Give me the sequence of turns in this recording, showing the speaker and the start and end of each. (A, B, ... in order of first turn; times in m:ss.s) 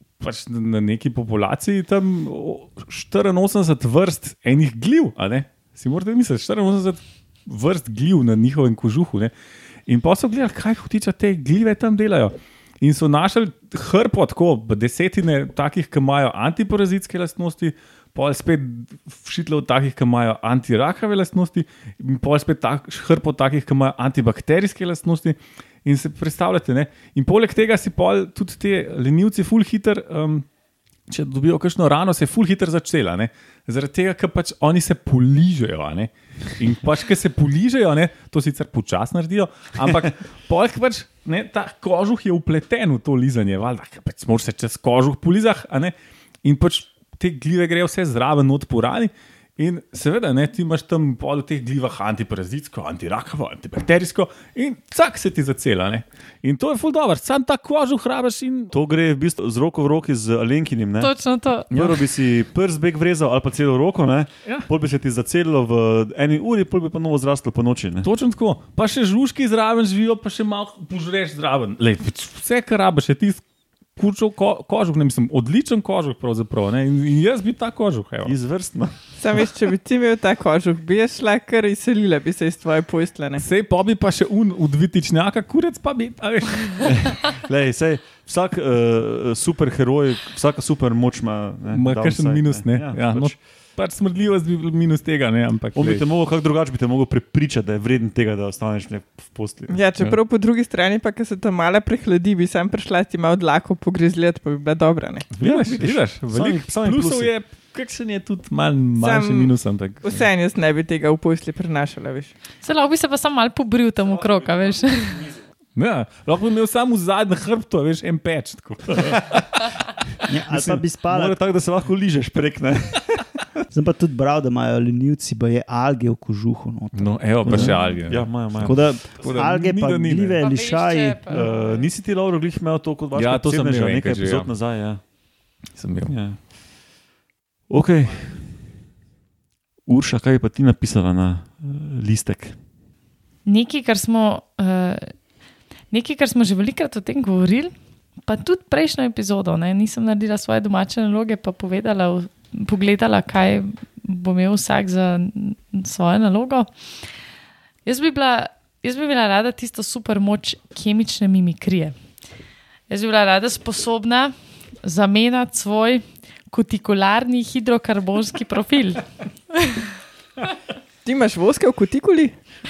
0:00.2-0:09.3 A
0:09.9-0:30.4 A
0:31.1-0:58.7 A
0:58.7-1:01.1 B
1:01.0-1:01.7 C
1:01.7-1:08.1 B
1:08.0-1:13.4 A
1:14.0-1:18.3 A
1:18.2-1:18.9 B
1:19.2-1:23.4 D
1:23.4-1:27.1 A
1:27.0-1:33.3 B
1:31.7-1:36.0 A
1:35.7-1:39.8 B
1:39.7-1:45.3 D
1:45.4-1:50.1 A
1:45.4-1:47.3 B
1:49.0-1:52.3 D
1:52.6-1:55.3 C
1:55.7-1:59.6 A
2:00.3-2:01.4 E
2:00.5-2:03.4 B
2:03.7-2:07.8 E
2:06.9-2:10.4 A
2:07.4-2:08.8 B
2:08.6-2:11.2 E
2:10.4-2:11.9 C
2:11.3-2:15.0 B
2:13.1-2:14.5 A
2:15.7-2:16.2 A
2:16.0-2:16.4 B
2:17.7-2:18.4 B
2:19.9-2:22.6 B
2:23.4-2:25.2 C
2:25.9-2:27.7 C
2:28.2-2:36.7 C
2:37.8-2:41.9 C
2:42.9-2:49.9 C
2:51.0-2:52.3 D